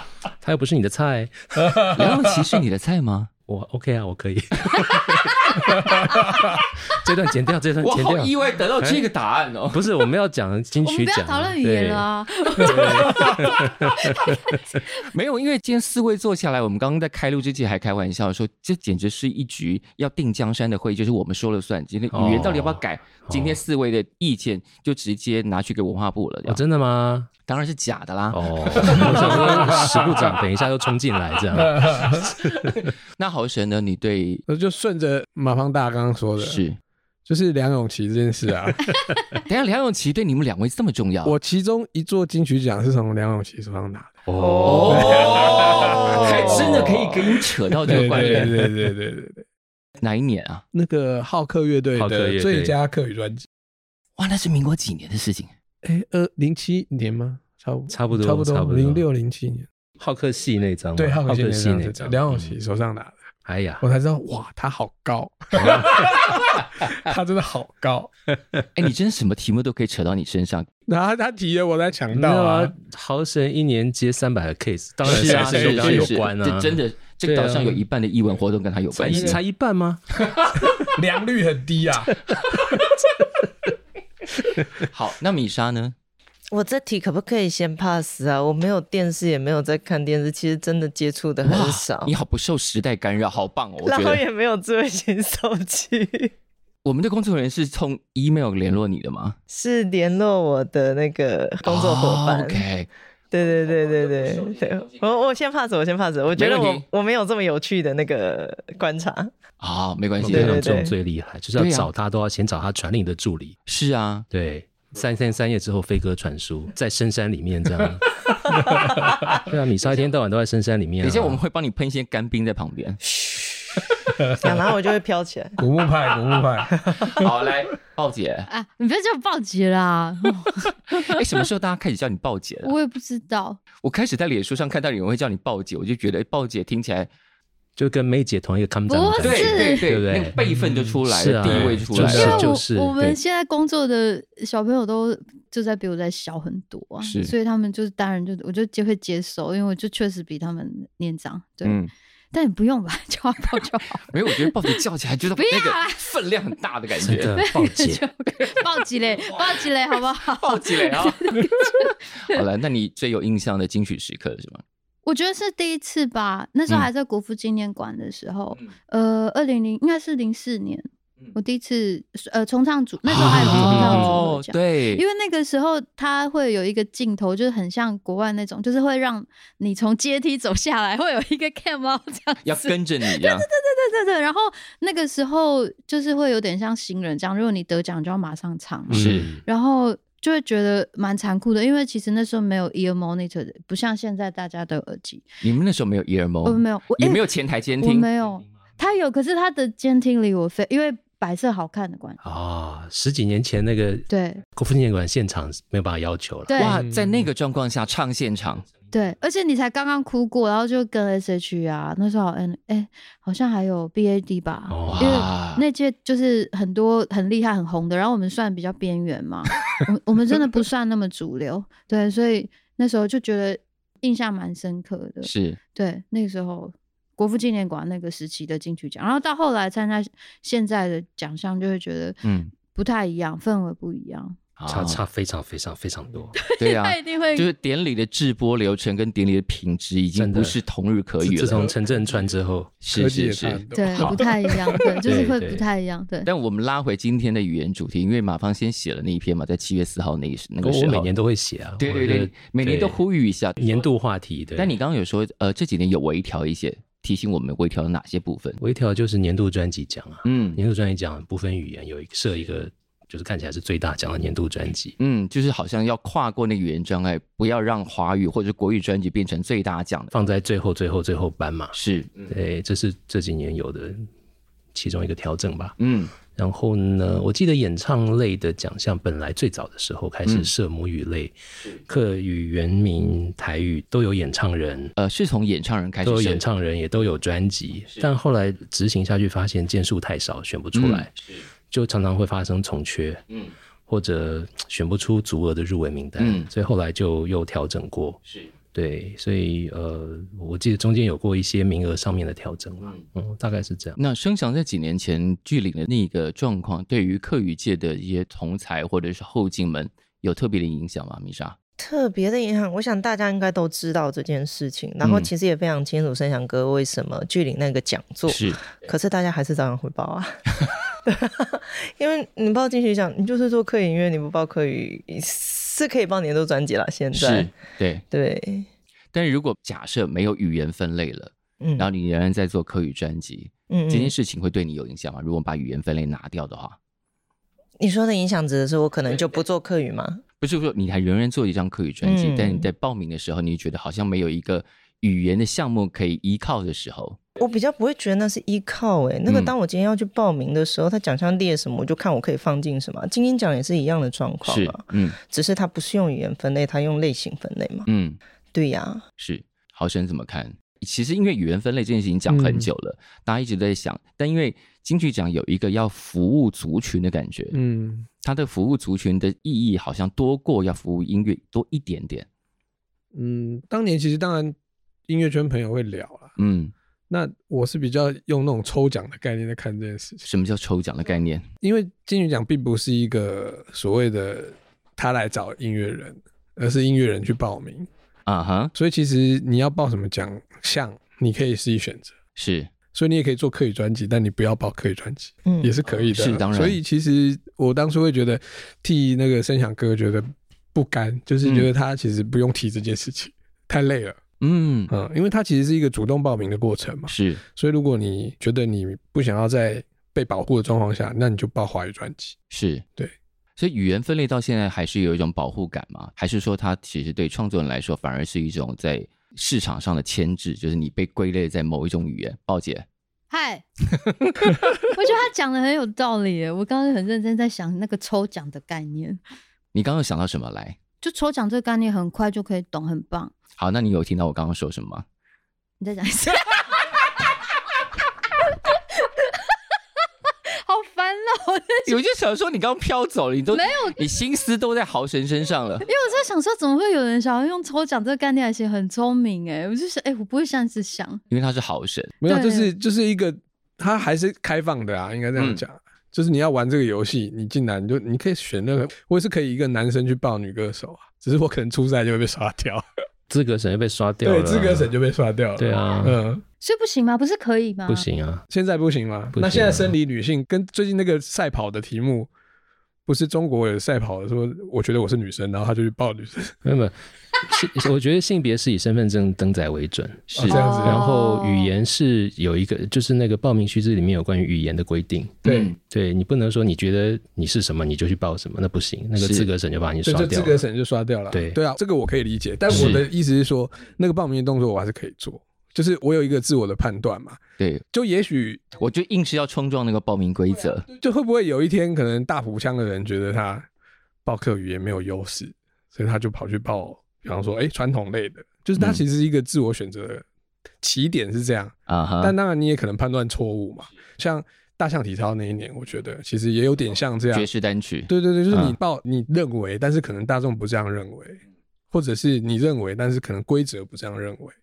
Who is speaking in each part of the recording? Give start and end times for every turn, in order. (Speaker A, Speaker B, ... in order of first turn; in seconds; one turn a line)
Speaker A: 0.4-2.0
Speaker B: 1.9-3.3
Speaker A: 3.5-9.1
Speaker B: 7.8-9.8
Speaker A: 9.7-12.1
Speaker C: 10.8-14.8
Speaker A: 12.6-14.6
Speaker B: 15.0-26.6
Speaker A: 22.1-23.6
Speaker A: 26.5-27.3
Speaker B: 27.5-29.9
Speaker A: 28.3-32.9
Speaker B: 33.2-34.4
Speaker D: 34.5-36.6
Speaker B: 36.4-36.8
Speaker D: 37.3-38.9
Speaker B: 39.5-41.4
Speaker D: 41.2-44.1
Speaker A: 44.3-45.7
Speaker E: 44.5-44.8
Speaker B: 44.6-48.6
Speaker D: 44.8-49.5
Speaker E: 45.7-46.6
Speaker A: 48.0-48.5
Speaker B: 50.0-50.6
Speaker D: 50.7-53.5
Speaker A: 52.0-52.8
Speaker B: 54.2-55.5
Speaker D: 55.8-59.7
Speaker A: 57.9-59.0
Speaker A: 60.0-62.6
Speaker D: 61.0-63.2
Speaker A: 63.5-63.8
Speaker D: 63.8-68.1
Speaker A: 65.5-66.2
Speaker B: 68.8-70.7
Speaker D: 70.9-72.7
Speaker A: 72.1-77.8
Speaker D: 75.0-76.2
Speaker B: 75.1-79.4
Speaker A: 78.9-80.0
Speaker D: 79.0-79.4
Speaker D: 80.7-82.9
Speaker B: 84.7-86.0
Speaker E: 86.5-92.1
Speaker B: 91.4-94.2
Speaker E: 93.8-96.3
Speaker B: 96.8-99.4
Speaker E: 99.5-102.7
Speaker B: 101.6-102.9
Speaker E: 103.3-109.3
Speaker B: 106.4-106.8
Speaker B: 109.6-110.7
Speaker A: 110.2-113.6
Speaker E: 110.3-110.9
Speaker B: 111.6-111.9
Speaker B: 113.7-114.3
Speaker A: 114.3-118.2
Speaker A: 119.0-121.4
Speaker B: 121.0-123.0
Speaker E: 123.0-123.9
Speaker E: 124.4-125.6
Speaker D: 125.6-127.3
Speaker B: 127.2-128.5
Speaker C: 128.5-131.2
Speaker B: 131.0-132.7
Speaker C: 132.6-133.6
Speaker B: 133.8-137.1
Speaker A: 137.8-140.4
Speaker C: 138.9-139.9
Speaker B: 139.2-142.5
Speaker A: 141.1-143.2
Speaker C: 141.9-151.8
Speaker B: 147.0-147.3
Speaker B: 151.6-151.9
Speaker C: 152.3-154.5
Speaker B: 154.1-157.4
Speaker C: 155.4-156.0
Speaker A: 157.0-158.0
Speaker C: 157.3-162.4
Speaker B: 159.3-159.7
Speaker B: 160.2-161.5
Speaker B: 162.2-164.6
Speaker C: 165.1-195.3
Speaker B: 173.1-175.0
Speaker A: 173.1-174.2
Speaker B: 182.4-183.5
Speaker A: 188.9-189.4
Speaker B: 188.9-189.3
Speaker B: 195.4-198.1
Speaker C: 196.4-197.2
Speaker C: 197.8-202.2
Speaker A: 202.2-206.7
Speaker C: 204.1-204.4
Speaker C: 206.5-206.8
Speaker B: 206.6-208.7
Speaker D: 206.6-207.3
Speaker C: 208.9-234.4
Speaker A: 214.7-215.3
Speaker B: 214.9-215.6
Speaker B: 225.2-225.6
Speaker B: 232.2-232.5
Speaker B: 234.6-235.0
Speaker A: 234.7-236.3
Speaker C: 236.4-237.5
Speaker B: 236.6-241.7
Speaker A: 240.2-240.6
Speaker A: 241.2-242.7
Speaker B: 242.8-244.2
Speaker D: 242.9-245.0
Speaker C: 243.7-246.3
Speaker A: 245.0-245.6
Speaker B: 246.2-251.1
Speaker A: 250.6-253.0
Speaker B: 251.8-253.8
Speaker A: 253.6-254.7
Speaker B: 254.6-258.6
Speaker A: 258.6-264.9
Speaker B: 260.2-260.6
Speaker B: 265.0-270.1
Speaker A: 270.1-271.8
Speaker B: 271.7-272.3
Speaker A: 272.3-274.1
Speaker A: 274.7-275.8
Speaker B: 275.8-276.1
Speaker A: 276.3-284.9
Speaker B: 285.0-286.4
Speaker A: 286.0-291.1
Speaker B: 290.8-291.4
Speaker A: 291.7-293.2
Speaker A: 293.9-298.2
Speaker B: 296.2-296.5
Speaker A: 298.7-304.0
Speaker B: 304.0-311.6
Speaker E: 311.8-320.4
Speaker B: 315.0-315.3
Speaker B: 318.3-318.6
Speaker E: 321.1-327.5
Speaker B: 327.1-328.0
Speaker E: 328.1-328.7
Speaker B: 329.1-336.8
Speaker E: 331.6-331.9
Speaker E: 333.7-334.1
Speaker E: 337.8-340.2
Speaker B: 340.4-347.2
Speaker E: 342.0-342.7
Speaker E: 347.4-357.9
Speaker B: 349.3-349.5
Speaker B: 354.4-355.2
Speaker B: 357.9-358.2
Speaker E: 358.5-359.0
Speaker B: 359.2-367.6
Speaker D: 362.3-362.7
Speaker D: 367.5-368.1
Speaker B: 368.2-372.3
Speaker D: 373.1-374.6
Speaker D: 375.1-376.3
Speaker B: 376.4-376.7
Speaker D: 377.1-380.2
Speaker B: 380.2-381.4
Speaker D: 381.6-387.9
Speaker B: 388.3-388.7
Speaker D: 388.7-392.1
Speaker B: 392.4-392.7
Speaker D: 392.9-404.2
Speaker E: 395.4-395.7
Speaker B: 396.1-396.8
Speaker B: 401.4-401.7
Speaker B: 404.4-404.9
Speaker D: 404.9-412.4
Speaker B: 407.1-407.4
Speaker B: 412.5-412.8
Speaker B: 413.6-422.9
Speaker C: 423.3-423.6
Speaker C: 424.9-429.2
Speaker B: 429.7-430.8
Speaker C: 431.0-433.3
Speaker B: 433.6-435.1
Speaker C: 435.8-436.8
Speaker C: 438.6-439.6
Speaker C: 440.6-442.0
Speaker B: 441.9-445.9
Speaker C: 443.5-444.0
Speaker C: 445.8-451.2
Speaker B: 451.3-452.2
Speaker D: 452.2-462.8
Speaker C: 452.3-452.7
Speaker B: 455.4-455.6
Speaker A: 463.3-464.9
Speaker D: 464.2-466.4
Speaker A: 465.6-466.2
Speaker C: 466.6-468.1
Speaker A: 467.9-468.4
Speaker D: 468.5-472.3
Speaker A: 469.3-469.9
Speaker D: 473.1-476.6
Speaker A: 476.6-490.6
Speaker B: 480.3-480.6
Speaker D: 480.4-481.0
Speaker C: 480.5-481.7
Speaker B: 485.4-485.8
Speaker D: 485.4-485.7
Speaker B: 489.2-489.5
Speaker D: 490.1-497.4
Speaker A: 491.3-491.6
Speaker B: 492.7-493.1
Speaker A: 492.7-493.0
Speaker B: 497.6-497.8
Speaker D: 497.9-498.8
Speaker B: 498.8-500.9
Speaker D: 500.9-503.7
Speaker D: 504.2-510.2
Speaker D: 510.8-517.5
Speaker B: 511.9-512.4
Speaker B: 517.3-518.8
Speaker D: 518.1-524.5